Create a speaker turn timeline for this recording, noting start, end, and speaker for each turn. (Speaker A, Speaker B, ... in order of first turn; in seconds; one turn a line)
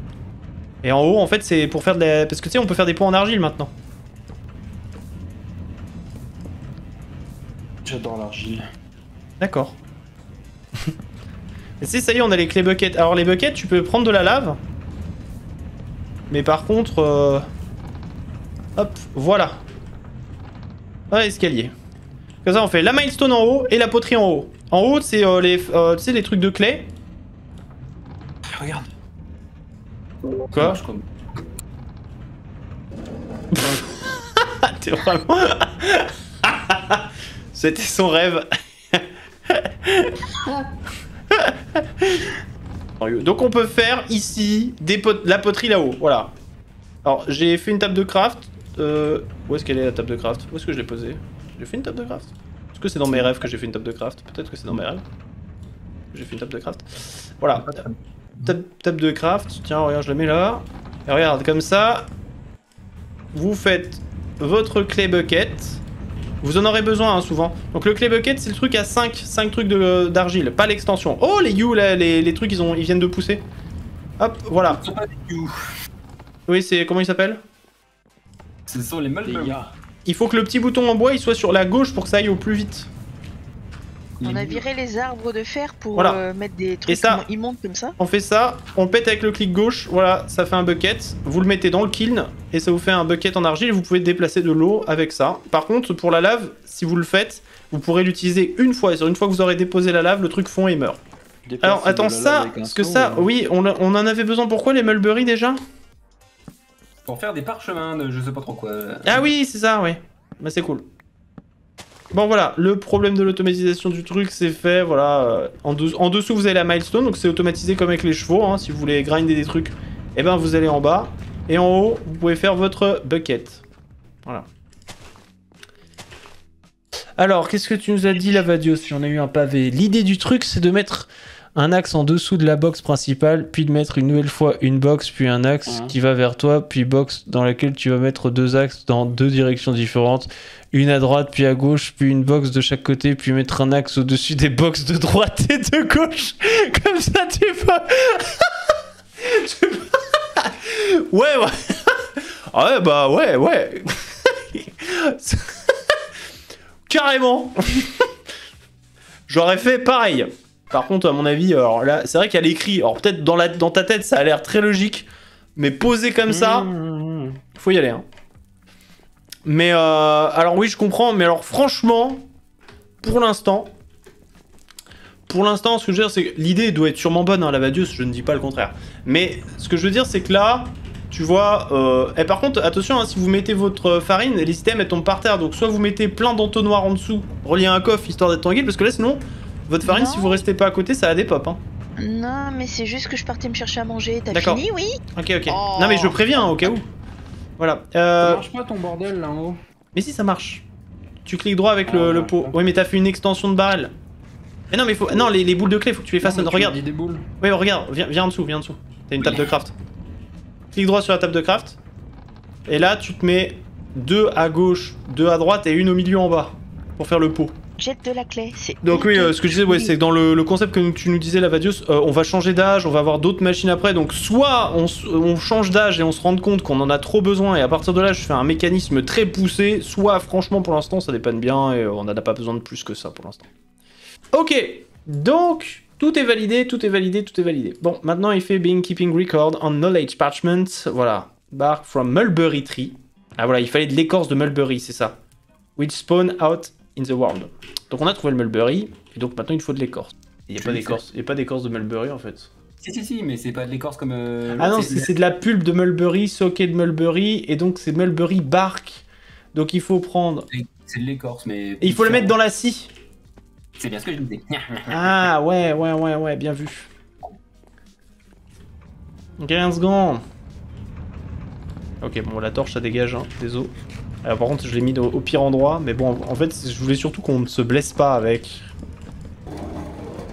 Speaker A: 0.8-3.7
Speaker B: 7.8-8.7
Speaker A: 9.4-9.8
Speaker A: 11.8-14.6
Speaker A: 16.3-17.4
Speaker A: 18.8-19.6
Speaker A: 21.1-21.7
Speaker A: 22.4-26.9
Speaker B: 28.4-28.9
Speaker C: 30.5-31.0
Speaker A: 30.5-30.8
Speaker A: 33.5-40.3
Speaker A: 41.3-42.3
Speaker A: 43.0-46.3
Speaker A: 47.0-55.0
Speaker A: 56.1-57.8
Speaker C: 57.6-58.5
Speaker A: 58.4-62.1
Speaker A: 63.3-65.8
Speaker A: 66.4-73.5
Speaker A: 74.2-74.8
Speaker C: 74.6-75.7
Speaker A: 76.5-77.4
Speaker C: 78.7-79.6
Speaker B: 79.2-79.7
Speaker A: 80.0-82.9
Speaker C: 84.2-84.6
Speaker D: 84.2-88.0
Speaker A: 85.9-86.2
Speaker A: 86.9-87.2
Speaker A: 88.0-101.0
Speaker B: 101.5-103.3
Speaker A: 101.6-105.6
Speaker C: 107.1-109.2
Speaker A: 109.0-110.9
Speaker A: 112.1-123.6
Speaker A: 127.2-155.9
Speaker B: 135.7-135.9
Speaker A: 156.9-158.1
Speaker A: 159.3-166.7
Speaker B: 166.3-167.4
Speaker A: 167.6-168.1
Speaker A: 169.4-172.3
Speaker A: 173.0-173.7
Speaker A: 175.3-191.6
Speaker D: 189.8-190.4
Speaker D: 192.0-196.7
Speaker A: 194.3-194.6
Speaker A: 195.1-196.9
Speaker A: 197.6-198.4
Speaker B: 198.2-199.6
Speaker A: 199.9-200.7
Speaker A: 201.2-203.9
Speaker B: 201.9-202.6
Speaker A: 204.7-206.8
Speaker B: 206.2-207.3
Speaker A: 207.4-209.8
Speaker A: 210.7-211.8
Speaker A: 212.7-217.6
Speaker D: 217.8-219.9
Speaker A: 218.8-233.5
Speaker A: 234.3-245.2
Speaker A: 245.8-252.5
Speaker C: 250.6-251.0
Speaker C: 252.8-255.1
Speaker A: 254.6-260.5
Speaker C: 260.5-262.4
Speaker A: 261.8-262.9
Speaker C: 263.8-265.3
Speaker A: 264.9-266.9
Speaker A: 269.4-270.2
Speaker A: 272.0-278.7